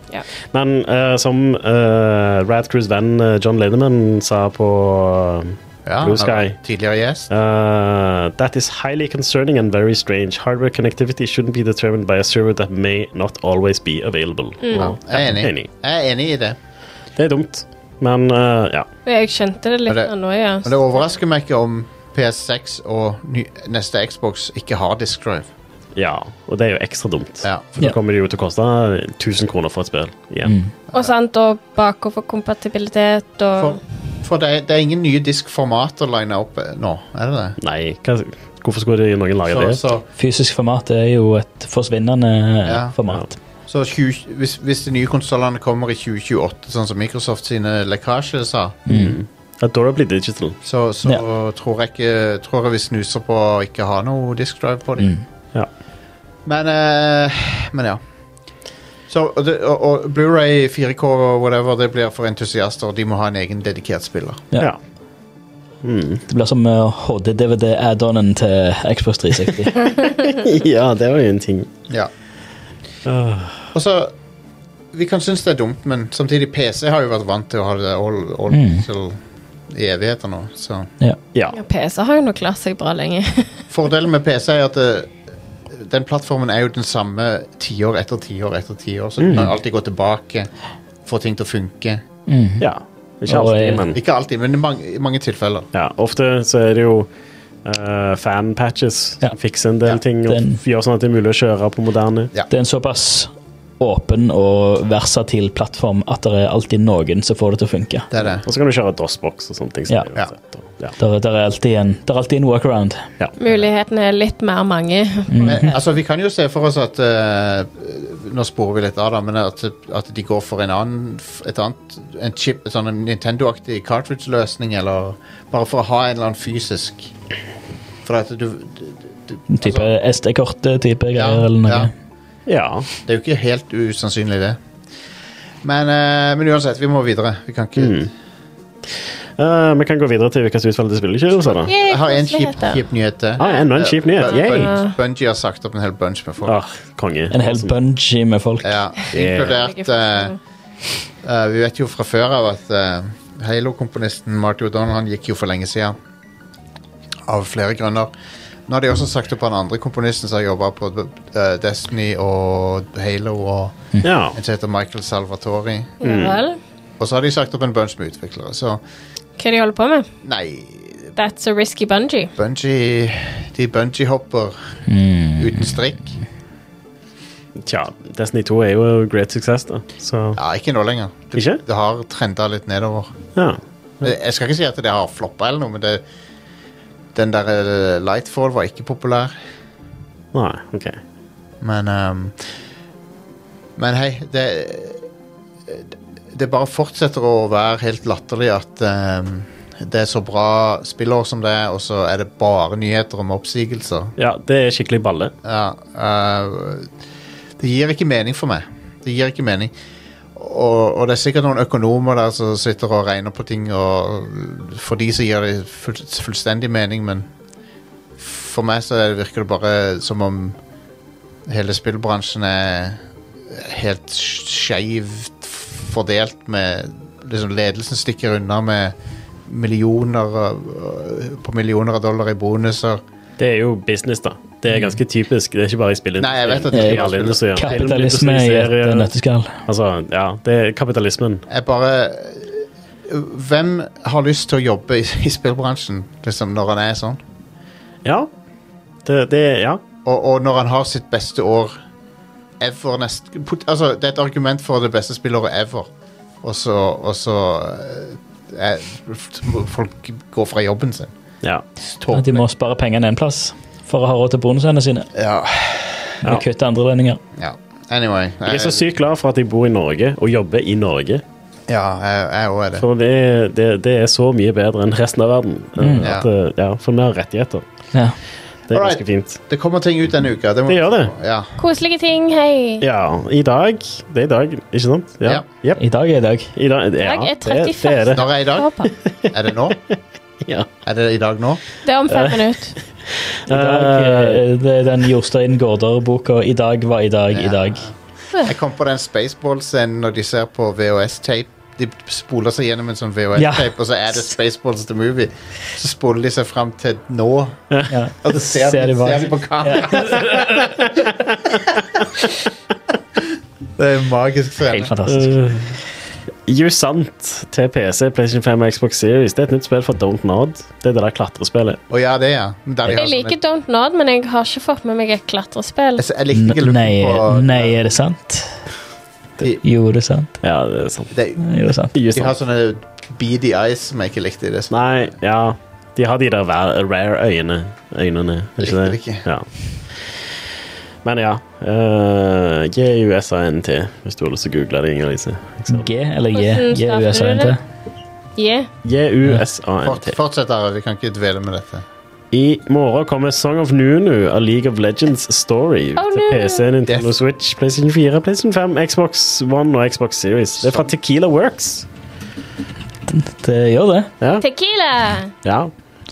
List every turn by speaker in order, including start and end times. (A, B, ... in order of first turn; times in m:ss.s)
0:00.5-0:06.6 A
0:05.8-0:07.3 B
0:07.3-0:15.7 A
0:14.6-0:14.9 C
0:14.7-0:16.6 B
0:17.2-0:18.9 A
0:19.0-0:21.0 C
0:19.9-0:25.5 B
0:26.0-0:30.5 A
0:27.4-0:27.7 B
0:30.4-0:30.7 D
0:30.9-0:33.8 C
0:33.6-0:37.6 B
0:37.6-0:39.8 A
0:39.4-0:40.0 B
0:40.2-0:43.3 D
0:42.6-0:43.0 B
0:43.7-0:48.8 B
0:48.9-0:49.2 D
0:48.9-0:50.6 A
0:50.6-0:55.2 B
0:55.0-0:55.2 D
0:56.4-0:58.0 B
0:59.1-1:04.4 B
1:05.8-1:06.2 A
1:06.3-1:09.8 D
1:10.0-1:11.7 A
1:13.0-1:13.7 A
1:13.7-1:14.1 B
1:14.9-1:20.9 B
1:18.5-1:18.8 D
1:21.5-1:23.5 C
1:23.7-1:25.1 B
1:25.7-1:30.5 B
1:29.2-1:29.5 A
1:31.0-1:32.0 B
1:32.3-1:32.7 D
1:32.6-1:34.0 A
1:33.3-1:33.8 D
1:33.9-1:35.7 B
1:35.7-1:37.1 A
1:37.6-1:42.3 A
1:40.3-1:40.6 D
1:42.5-1:48.1 D
1:48.1-1:48.4 B
1:48.4-1:51.0 A
1:51.0-1:53.0 D
1:53.4-1:55.6 C
1:55.3-1:55.7 D
1:55.4-2:07.1 B
2:08.0-2:09.9 B
2:09.5-2:11.9 D
2:11.2-2:11.9 B
2:12.5-2:12.9 A
2:13.0-2:14.6 B
2:15.6-2:18.1 B
2:17.8-2:18.1 A
2:19.4-2:21.7 A
2:21.6-2:26.6 B
2:21.6-2:22.8 C
2:23.4-2:24.7 A
2:23.4-2:24.9 C
2:26.4-2:27.7 A
2:27.3-2:28.8 D
2:28.6-2:30.3 B
2:29.1-2:29.6 A
2:29.3-2:30.4 C
2:31.2-2:36.0 B
2:37.2-2:38.1 B
2:38.7-2:46.0 B
2:44.0-2:44.4 A
2:46.0-2:46.6 C
2:46.0-2:46.4 A
2:47.0-2:48.8 B
2:49.4-2:50.1 C
2:50.2-2:51.1 B
2:51.2-2:52.3 C
2:52.4-2:54.8 B
2:54.9-2:55.8 D
2:55.4-2:56.2 B
2:57.6-3:00.4 A
3:00.4-3:03.1 B
3:01.3-3:01.6 A
3:03.4-3:04.1 A
3:04.0-3:06.0 B
3:07.1-3:09.3 B
3:10.3-3:11.0 A
3:11.6-3:12.5 B
3:13.8-3:15.0 B
3:15.7-3:24.1 B
3:24.2-3:25.3 A
3:25.4-3:26.9 B
3:27.6-3:29.7 B
3:30.3-3:37.3 B
3:38.2-3:40.6 B
3:41.5-3:48.9 B
3:49.5-3:53.0 B
3:53.4-3:59.1 A
3:56.2-3:57.6 B
3:56.7-3:59.6 D
3:59.6-4:01.4 A
4:01.5-4:07.2 B
4:09.0-4:09.8 A
4:10.0-4:11.8 B
4:12.6-4:15.9 B
4:16.4-4:21.1 B
4:21.8-4:22.4 B
4:22.1-4:25.1 D
4:25.1-4:26.2 B
4:26.2-4:27.2 D
4:27.4-4:28.8 B
4:28.4-4:31.2 A
4:31.7-4:32.8 B
4:32.8-4:37.6 A
4:35.8-4:36.1 D
4:36.0-4:36.3 B
4:38.7-4:39.4 A
4:38.7-4:41.5 B
4:40.7-4:41.1 A
4:41.6-4:42.8 C
4:42.8-4:45.8 A
4:45.8-4:46.5 D
4:46.5-4:48.3 A
4:47.0-4:48.9 C
4:48.1-4:48.7 B
4:49.0-4:49.3 A
4:49.3-4:49.8 B
4:50.4-4:50.7 A
4:50.8-4:51.6 B
4:51.8-4:52.8 C
4:52.1-4:52.5 A
4:53.4-4:54.4 A
4:53.5-4:57.8 D
4:57.3-5:10.4 B
5:03.4-5:03.7 D
5:07.9-5:10.7 D
5:13.8-5:14.9 B
5:14.7-5:15.5 D
5:15.1-5:15.7 A
5:16.5-5:21.8 A
5:21.9-5:23.4 B
5:22.9-5:26.0 C
5:26.0-5:27.8 B
5:26.3-5:28.6 D
5:29.6-5:30.3 D
5:30.4-5:31.1 A
5:31.1-5:31.4 B
5:31.4-5:31.9 D
5:31.9-5:32.4 A
5:32.1-5:34.7 B
5:34.7-5:39.5 A
5:38.6-5:39.2 B
5:41.0-5:45.9 A
5:45.7-5:47.6 D
5:46.3-5:47.5 C
5:48.4-5:48.7 C
5:48.8-5:50.2 A
5:49.8-5:51.8 B
5:52.3-6:01.8 A
5:56.0-5:56.6 C
5:56.8-5:57.1 B
6:00.6-6:00.8 B
6:03.1-6:04.1 D
6:04.4-6:05.3 C
6:05.4-6:05.7 A